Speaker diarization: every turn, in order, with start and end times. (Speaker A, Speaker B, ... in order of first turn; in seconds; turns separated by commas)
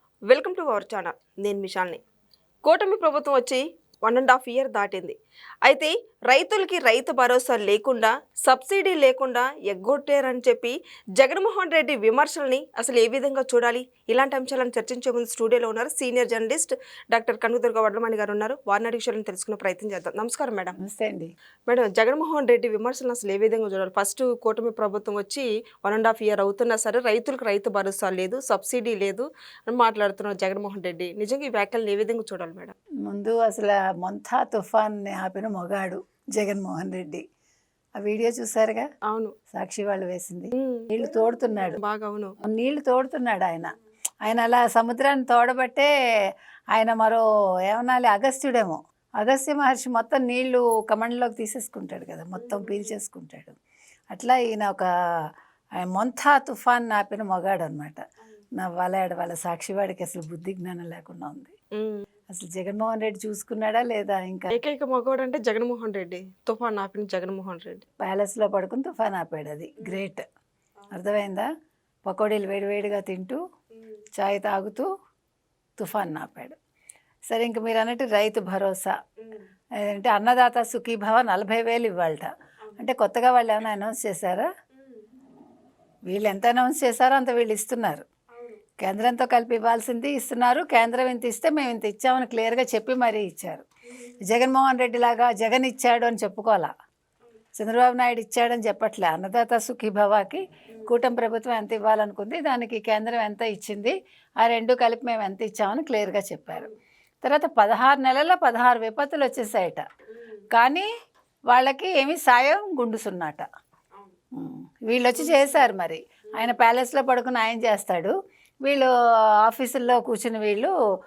Speaker A: 0.3-2.0, Speaker A: 2.6-5.1, Speaker A: 5.6-20.8, Speaker B: 20.8-21.3, Speaker A: 21.7-32.7, Speaker B: 33.0-37.2, Speaker B: 38.0-38.9, Speaker A: 39.1-39.3, Speaker B: 39.5-41.8, Speaker A: 40.5-40.9, Speaker A: 41.5-42.3, Speaker B: 42.4-43.7, Speaker B: 44.2-45.9, Speaker B: 46.7-53.6, Speaker A: 52.4-52.9, Speaker B: 54.1-54.9, Speaker B: 55.8-58.0, Speaker B: 58.6-61.5, Speaker A: 61.8-62.0, Speaker B: 62.3-64.5, Speaker A: 64.5-67.8, Speaker B: 68.0-70.2, Speaker B: 70.9-71.5, Speaker B: 72.0-73.4, Speaker B: 74.2-74.9, Speaker B: 75.8-76.5, Speaker B: 77.3-78.9, Speaker B: 79.8-84.5, Speaker B: 86.1-88.0, Speaker A: 88.3-88.6, Speaker B: 88.8-93.6, Speaker B: 94.2-96.7, Speaker B: 97.5-106.7, Speaker B: 107.2-109.8, Speaker B: 110.5-110.9, Speaker B: 111.5-113.5, Speaker B: 114.3-118.9, Speaker A: 115.1-115.7, Speaker A: 116.3-116.6, Speaker B: 119.4-120.7